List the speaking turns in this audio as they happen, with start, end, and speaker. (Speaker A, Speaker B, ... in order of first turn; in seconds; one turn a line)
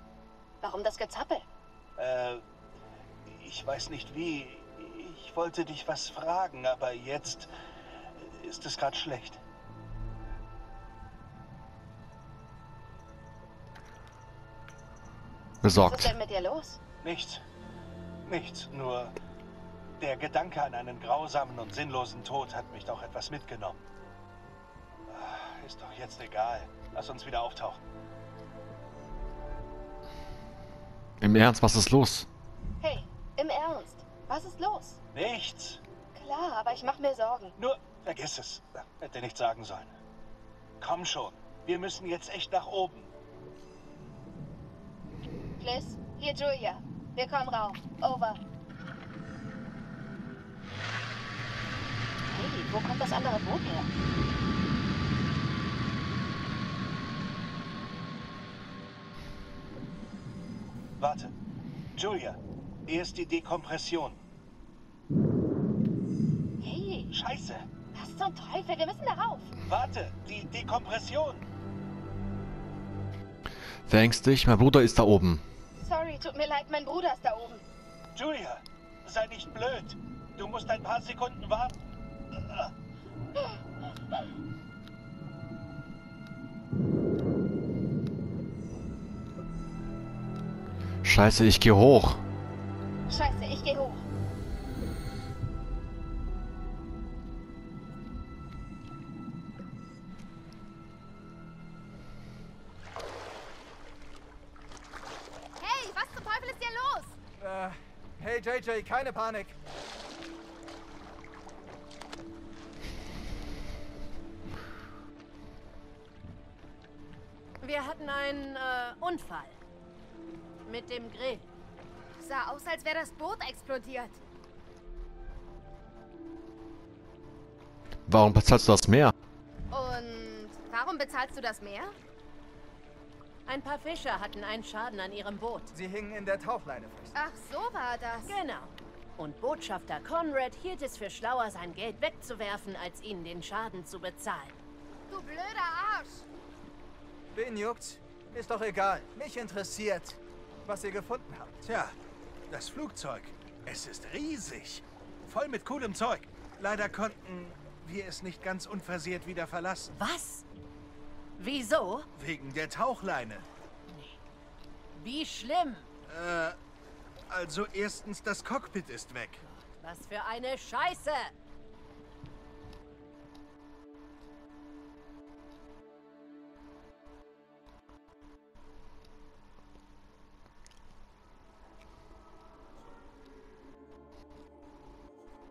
Speaker A: 0.6-1.5
Speaker B: 2.0-2.4
Speaker B: 3.2-7.5
Speaker B: 8.1-9.4
Speaker C: 15.6-16.1
Speaker A: 15.7-16.8
Speaker B: 17.0-17.4
Speaker B: 18.3-19.1
Speaker B: 20.0-23.8
Speaker B: 25.1-27.8
Speaker C: 31.2-32.3
Speaker A: 32.8-35.0
Speaker B: 35.1-35.8
Speaker A: 36.1-37.5
Speaker B: 37.6-39.9
Speaker B: 40.8-43.1
Speaker A: 45.6-48.4
Speaker A: 52.3-53.9
Speaker B: 61.0-61.3
Speaker B: 61.9-64.2
Speaker A: 66.6-67.1
Speaker B: 67.1-67.6
Speaker A: 67.9-69.5
Speaker B: 69.7-71.4
Speaker C: 73.9-75.4
Speaker A: 75.8-77.6
Speaker B: 78.1-81.7
Speaker B: 82.3-82.7
Speaker C: 91.0-92.2
Speaker A: 93.1-94.0
Speaker D: 105.6-107.2
Speaker E: 107.4-109.6
Speaker F: 117.6-119.6
Speaker F: 120.6-121.5
Speaker D: 122.2-124.2
Speaker C: 128.1-129.1
Speaker D: 129.7-131.9
Speaker F: 133.4-135.7
Speaker E: 135.7-137.2
Speaker D: 137.1-138.3
Speaker F: 138.2-144.6
Speaker D: 145.1-146.2
Speaker E: 147.3-151.6
Speaker B: 151.6-151.9
Speaker B: 152.5-159.9
Speaker F: 159.9-160.4
Speaker F: 161.4-162.1
Speaker B: 162.2-163.4
Speaker F: 163.9-164.2
Speaker F: 164.9-165.9
Speaker B: 166.1-166.6
Speaker B: 167.3-169.4
Speaker F: 169.4-171.3